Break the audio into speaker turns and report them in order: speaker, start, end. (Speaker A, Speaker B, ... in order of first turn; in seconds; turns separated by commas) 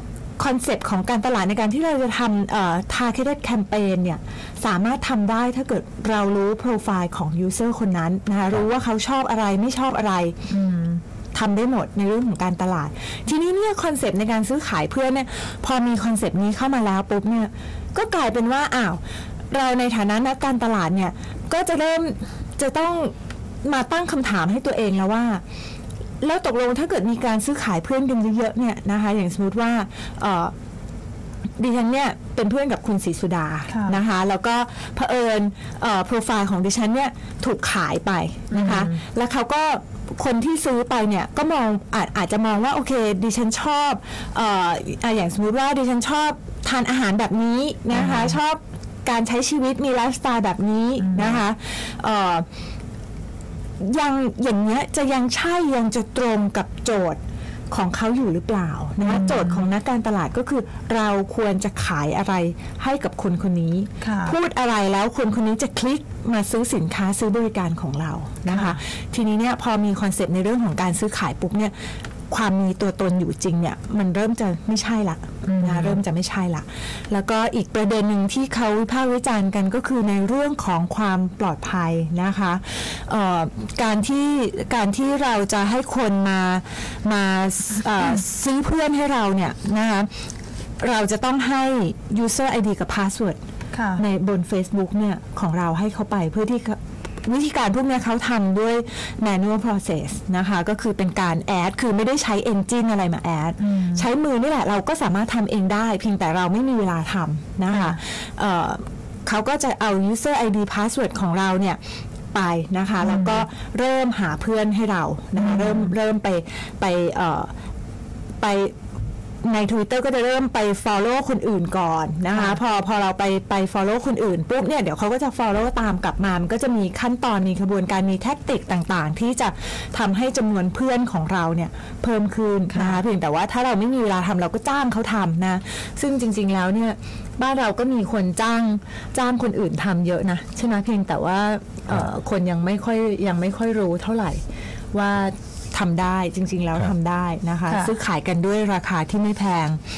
Speaker A: 0.4-10.3, Speaker B: 10.5-11.0, Speaker A: 11.3-25.4, Speaker A: 26.2-30.5, Speaker A: 31.6-52.4, Speaker B: 33.7-34.0, Speaker B: 38.5-39.0, Speaker B: 47.9-48.4, Speaker B: 51.0-51.4, Speaker A: 53.8-57.2, Speaker A: 57.7-71.7, Speaker B: 59.0-59.6, Speaker B: 64.0-64.3, Speaker B: 68.5-68.8, Speaker A: 72.3-90.1, Speaker B: 75.4-76.0, Speaker A: 90.8-93.4, Speaker B: 93.7-94.0, Speaker A: 94.0-111.8, Speaker B: 103.6-104.0, Speaker B: 107.7-108.0, Speaker A: 112.3-117.5, Speaker B: 113.0-113.4, Speaker B: 115.3-115.9, Speaker A: 118.4-118.7, Speaker A: 119.4-149.8, Speaker B: 122.3-122.6, Speaker B: 132.7-133.0